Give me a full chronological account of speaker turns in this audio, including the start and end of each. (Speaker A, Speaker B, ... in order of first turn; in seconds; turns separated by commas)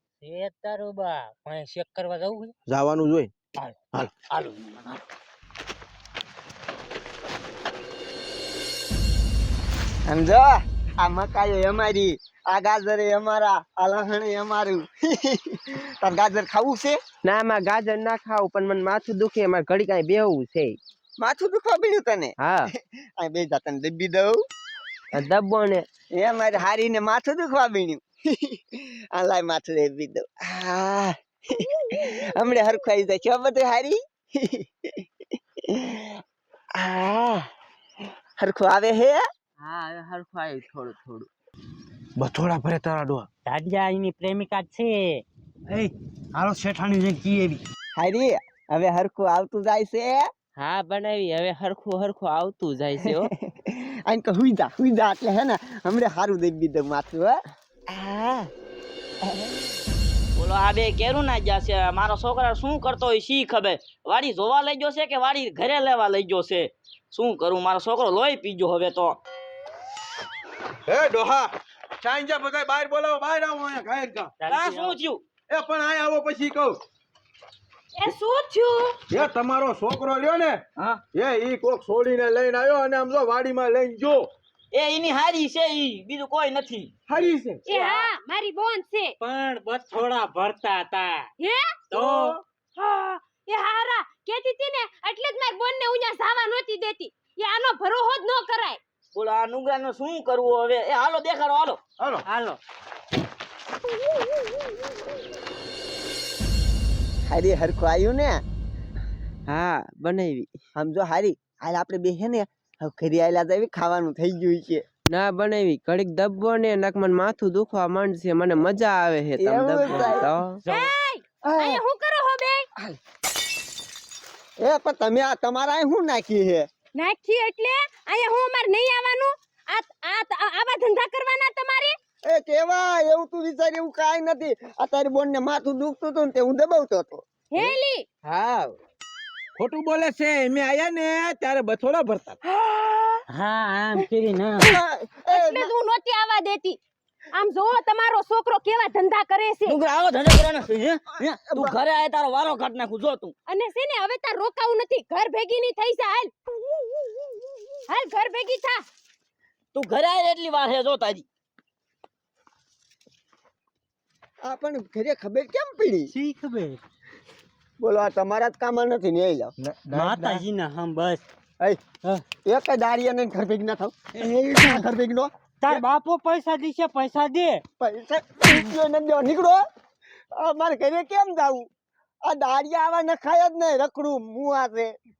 Speaker A: 0.2-2.5, Speaker B: 2.7-3.3, Speaker A: 4.3-5.0, Speaker C: 10.1-17.0, Speaker D: 17.2-20.8, Speaker C: 21.2-22.4, Speaker D: 22.4-22.7, Speaker C: 22.9-24.4, Speaker D: 25.1-25.8, Speaker C: 26.1-35.1, Speaker C: 35.7-36.2, Speaker C: 36.7-37.5, Speaker C: 38.4-39.2, Speaker D: 39.6-41.3, Speaker B: 42.2-43.3, Speaker A: 43.4-47.6, Speaker C: 48.0-50.3, Speaker D: 50.6-53.3, Speaker C: 53.2-57.4, Speaker C: 57.9-58.5, Speaker C: 59.2-59.7, Speaker E: 60.4-69.2, Speaker B: 70.9-74.3, Speaker A: 74.4-75.0, Speaker E: 74.5-75.2, Speaker B: 75.5-76.8, Speaker F: 78.0-79.0, Speaker B: 79.1-80.6, Speaker B: 81.1-84.3, Speaker E: 84.7-86.9, Speaker B: 87.1-87.6, Speaker F: 87.7-89.1, Speaker A: 87.7-88.1, Speaker A: 89.2-91.3, Speaker F: 91.4-98.8, Speaker A: 91.9-92.3, Speaker B: 91.9-92.4, Speaker E: 99.1-101.8, Speaker B: 102.0-102.2, Speaker A: 102.2-102.6, Speaker C: 107.3-108.4, Speaker D: 109.5-110.5, Speaker C: 110.8-114.8, Speaker D: 115.1-120.6, Speaker C: 119.4-120.3, Speaker F: 120.0-122.7, Speaker C: 121.4-121.8, Speaker C: 124.6-126.7, Speaker F: 127.0-132.0, Speaker C: 132.2-137.2, Speaker F: 137.5-138.1, Speaker B: 138.3-138.7, Speaker B: 139.6-142.4, Speaker A: 143.3-144.7, Speaker C: 144.6-145.7, Speaker F: 145.3-146.8, Speaker F: 147.3-149.8, Speaker E: 149.7-153.3, Speaker F: 153.5-156.3, Speaker F: 157.9-158.8, Speaker E: 159.7-161.2, Speaker C: 164.4-166.1, Speaker A: 166.1-166.8, Speaker C: 167.8-169.5, Speaker B: 169.6-170.4, Speaker A: 169.8-171.2, Speaker C: 172.4-175.8, Speaker A: 175.6-177.6, Speaker C: 177.8-179.6, Speaker C: 180.3-181.7, Speaker C: 182.2-184.9